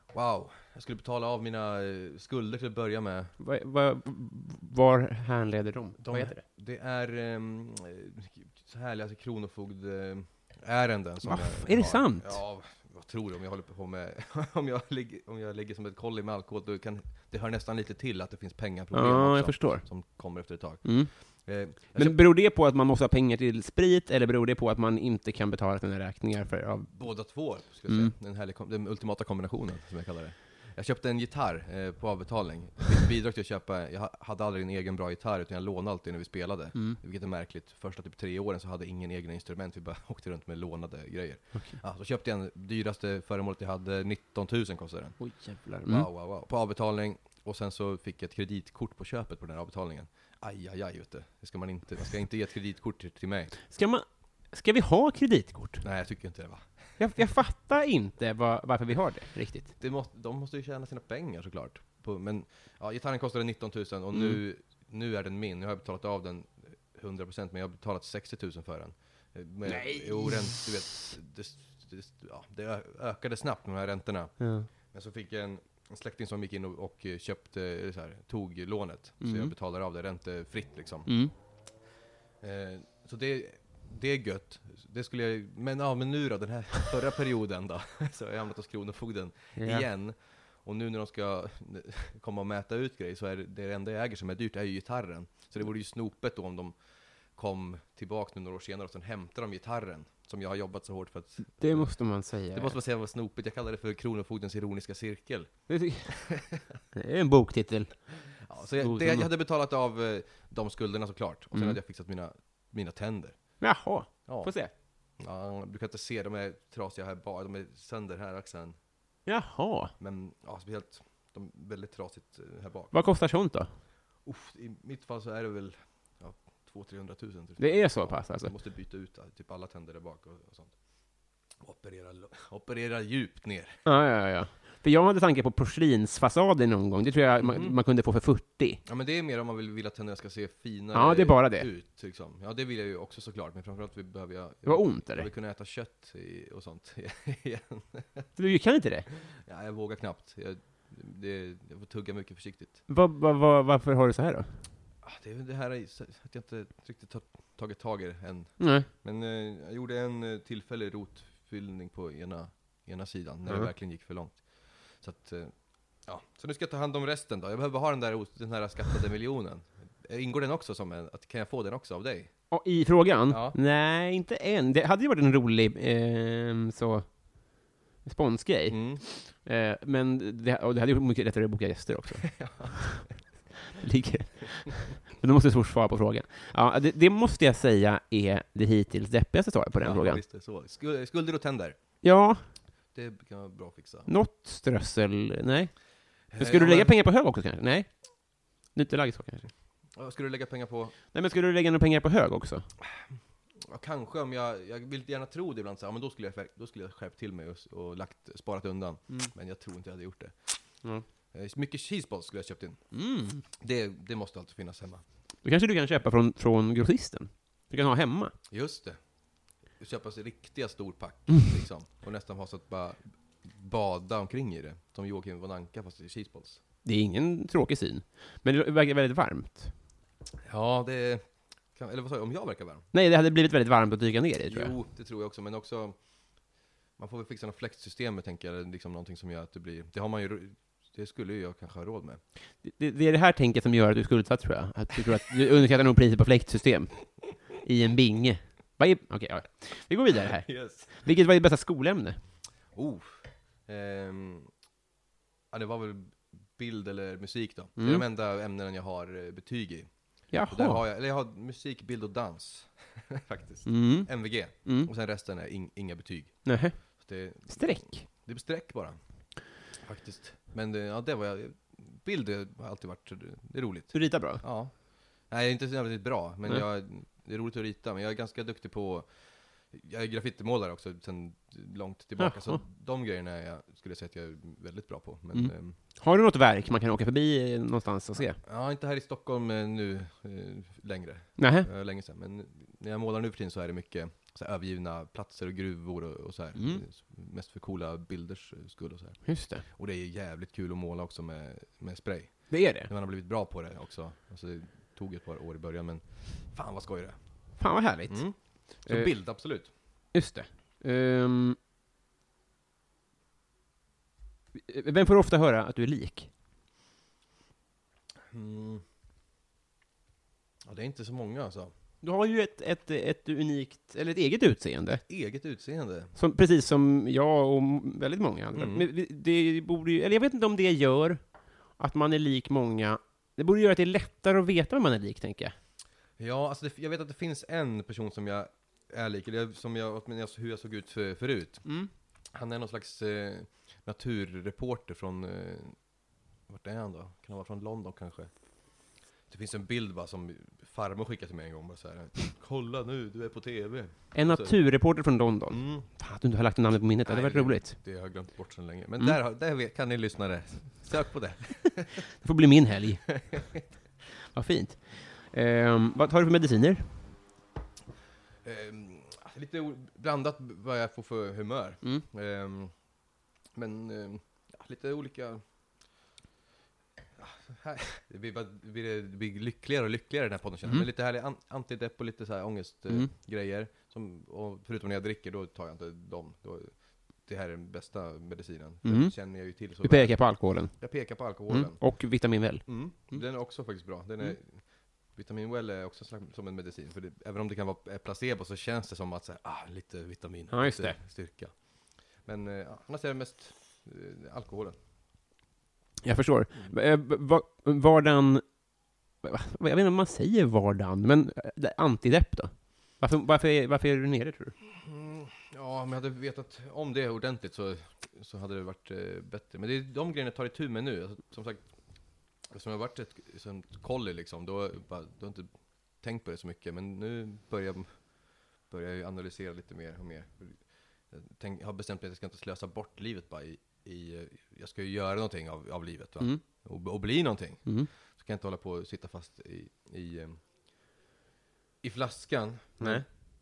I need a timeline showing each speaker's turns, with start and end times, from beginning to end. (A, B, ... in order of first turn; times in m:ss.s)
0:00.1-0:03.4 A
0:03.4-0:06.4 B
0:06.0-0:22.2 A
0:11.2-0:12.4 B
0:18.9-0:20.0 B
0:20.8-0:21.1 B
0:21.7-0:28.1 B
0:26.9-0:45.2 A
0:45.2-0:46.1 B
0:45.8-0:53.6 A
0:53.7-0:55.8 B
0:55.8-0:57.0 A
0:57.0-0:59.7 B
0:59.8-1:21.2 A
1:04.1-1:04.4 B
1:09.7-1:11.0 B
1:14.4-1:14.7 B
1:19.2-1:19.5 B
1:21.1-1:21.3 B
1:22.4-1:36.8 A
1:29.6-1:29.9 B
1:37.3-1:42.0 A
1:41.6-1:42.8 B
1:42.5-1:46.6 A
1:45.7-1:49.3 B
1:48.4-1:53.7 A
1:53.6-1:54.7 B
1:54.3-1:54.6 A
1:55.1-1:58.8 A
1:59.3-1:59.9 B
2:00.0-2:02.9 A
2:02.9-2:03.7 B
2:04.2-2:10.8 A
2:07.6-2:08.5 B
2:11.6-2:13.8 A
2:13.8-2:18.8 B
2:17.4-2:17.8 A
2:18.9-2:28.3 A
2:20.9-2:21.7 B
2:24.6-2:25.3 B
2:28.4-2:29.1 B
2:29.3-2:32.8 A
2:32.9-2:34.6 B
2:35.0-2:52.4 A
2:38.6-2:38.9 B
2:52.5-3:03.1 B
2:53.3-2:53.6 A
2:58.7-2:59.0 A
3:02.4-3:02.9 A
3:03.7-3:10.2 B
3:09.8-3:11.8 A
3:12.0-3:12.4 B
3:12.9-3:14.1 A
3:14.1-3:18.0 B
3:16.3-3:17.0 A
3:18.7-3:19.5 B
3:20.0-3:21.0 A
3:21.1-3:22.7 B
3:23.6-3:30.4 A
3:31.3-3:32.9 A
3:32.9-3:33.4 B
3:33.6-3:35.0 A
3:35.4-3:38.3 B
3:38.5-3:39.0 A
3:39.6-3:46.6 A
3:46.8-3:49.7 B
3:50.4-3:52.9 A
3:52.9-3:54.7 B
3:54.5-3:56.0 A
3:57.0-4:02.2 A
4:02.6-4:12.2 B
4:10.4-4:10.9 A
4:12.7-4:14.5 A
4:15.5-4:29.0 A
4:17.8-4:18.0 B
4:20.3-4:20.8 B
4:23.7-4:24.9 B
4:26.4-4:28.1 B
4:29.7-4:45.8 A
4:33.9-4:34.4 B
4:42.2-4:42.6 B
4:45.3-4:48.4 B
4:48.2-5:07.2 A
4:51.4-4:51.7 B
4:56.6-4:56.8 B
4:59.3-4:59.6 B
5:02.5-5:02.9 B
5:07.6-5:11.6 B
5:08.1-5:09.7 A
5:14.6-5:16.3 B
5:18.3-5:18.8 A
5:20.6-5:21.7 A
5:22.0-5:25.0 B
5:25.1-5:26.1 A
5:26.2-5:31.2 B
5:28.5-5:28.9 A
5:31.8-5:35.6 B
5:36.2-5:41.7 A
5:41.6-5:41.9 B
5:42.3-5:45.8 A
5:46.5-5:48.3 A
5:49.3-5:54.6 A
5:54.1-5:57.8 B
5:55.5-5:55.9 A
5:57.1-6:02.0 A
6:02.2-6:03.3 B
6:03.2-6:03.6 A
6:04.3-6:07.0 B
6:08.4-6:12.7 A
6:13.5-6:15.4 A
6:17.2-6:32.1 A
6:28.8-6:33.3 B
6:32.6-6:44.8 A
6:40.5-6:41.0 B
6:46.0-6:54.6 B
6:54.7-7:01.6 A
7:02.4-7:20.4 A
7:21.8-7:23.0 A
7:22.8-7:23.0 B